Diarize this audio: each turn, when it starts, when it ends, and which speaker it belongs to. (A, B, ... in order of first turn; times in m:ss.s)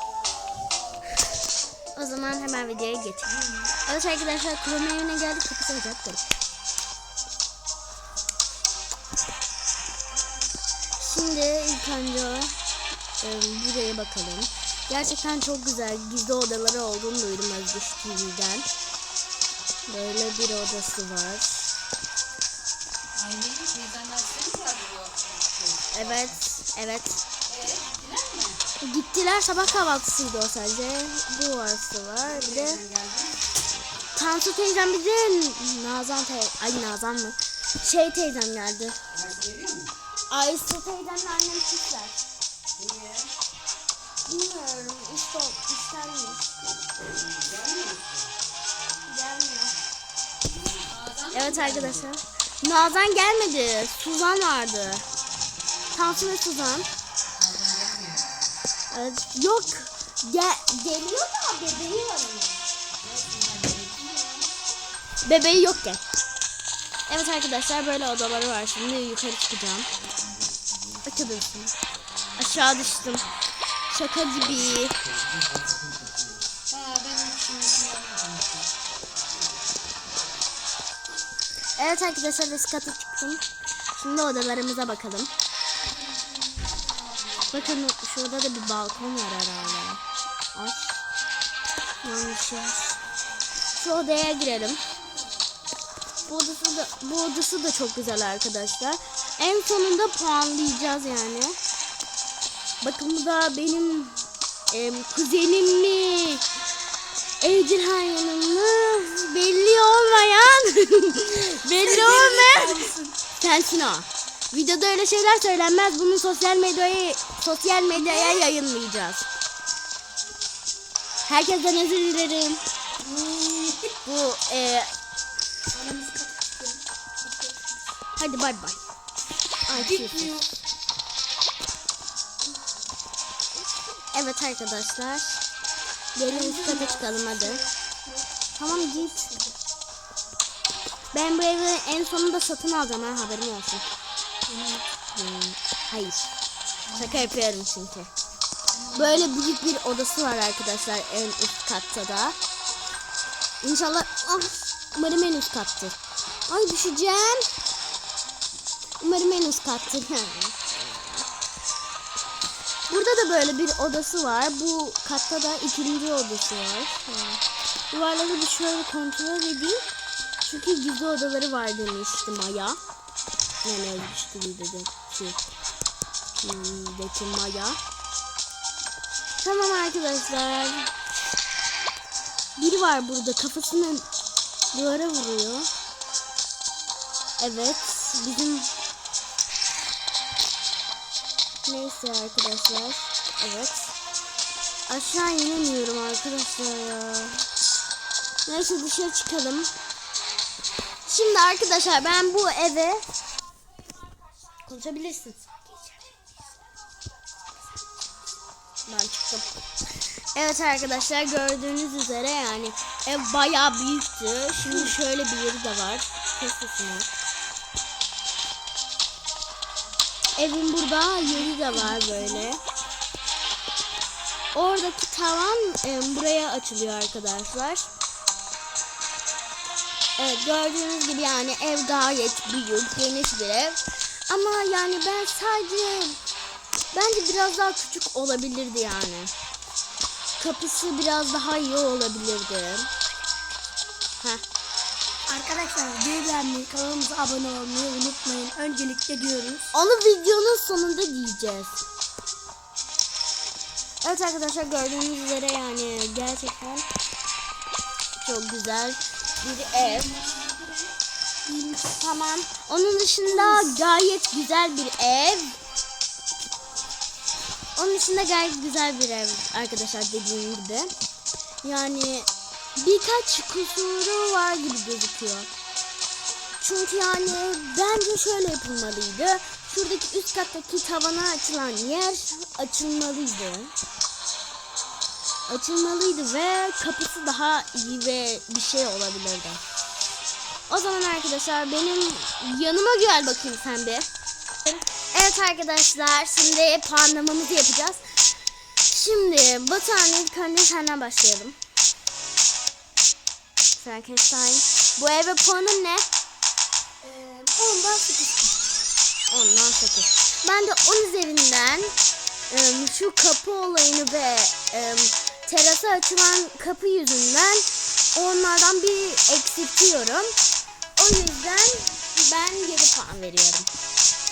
0:01.9-0:06.2 A
0:11.0-0:12.6 A
0:13.2-0:18.7 A
0:19.9-0:21.6 A
0:23.2-0:26.3 B
0:25.9-0:27.2 A
0:27.5-0:28.6 B
0:28.8-0:32.9 A
0:32.6-0:33.4 B
0:34.1-0:39.0 A
0:39.2-0:39.9 B
0:40.3-0:42.2 A
0:42.8-0:43.3 B
0:44.2-0:46.5 A
0:47.5-0:48.0 B
0:49.0-0:49.8 A
0:50.8-0:52.1 B
0:51.3-0:55.1 A
0:55.9-0:56.9 A
0:57.4-0:58.4 B
0:58.9-1:02.6 A
1:03.1-1:04.5 B
1:05.2-1:06.0 A
1:07.1-1:09.9 A
1:11.0-1:11.8 A
1:12.4-1:13.3 A
1:13.9-1:15.0 A
1:16.7-1:18.7 B
1:21.8-1:25.3 A
1:27.5-1:30.0 A
1:30.6-1:31.0 A
1:32.0-1:33.0 A
1:33.7-1:34.8 A
1:36.2-1:41.6 A
1:42.8-1:46.4 A
1:47.4-1:59.3 A
1:51.8-1:53.1 C
1:58.0-1:58.4 C
2:01.3-2:02.7 A
2:03.0-2:04.0 C
2:04.0-2:04.9 A
2:05.7-2:07.8 C
2:08.2-2:08.8 A
2:09.7-2:10.3 A
2:09.7-2:10.5 C
2:14.1-2:15.4 A
2:16.2-2:17.6 A
2:16.3-2:19.6 C
2:18.6-2:19.3 A
2:21.1-2:23.9 A
2:24.5-2:24.8 C
2:25.2-2:26.3 A
2:26.9-2:28.1 A
2:28.8-2:29.2 B
2:28.9-2:32.4 A
2:33.6-2:37.5 A
2:39.0-2:41.3 A
2:42.9-2:49.8 A
2:50.4-2:52.8 A
2:53.6-2:55.4 A
2:56.4-2:57.8 A
2:59.4-3:00.9 A
3:02.6-3:04.1 A
3:04.7-3:05.7 A
3:07.4-3:08.7 A
3:11.6-3:13.9 A
3:14.9-3:17.4 A
3:18.5-3:19.7 A
3:21.0-3:23.0 A
3:24.7-3:26.1 A
3:28.9-3:29.5 A
3:30.2-3:37.1 A
3:34.6-3:35.0 C
3:40.4-3:42.6 A
3:41.5-3:42.5 C
3:44.5-3:47.8 A
3:50.2-3:56.2 A
3:56.9-3:59.3 A
4:00.4-4:02.9 A
4:05.3-4:09.7 C
4:09.7-4:11.8 A
4:14.0-4:16.9 A
4:18.2-4:20.2 A
4:19.9-4:20.8 C
4:21.5-4:25.6 A
4:23.2-4:23.8 C
4:27.8-4:30.9 A
4:31.6-4:35.5 A
4:36.6-4:43.7 A
4:45.5-4:49.6 A
4:50.7-4:54.1 A
4:54.7-4:58.2 A
4:58.9-5:01.6 A
5:03.8-5:06.1 A
5:07.0-5:08.6 C
5:09.3-5:11.9 A
5:12.5-5:20.4 A
5:21.0-5:23.7 A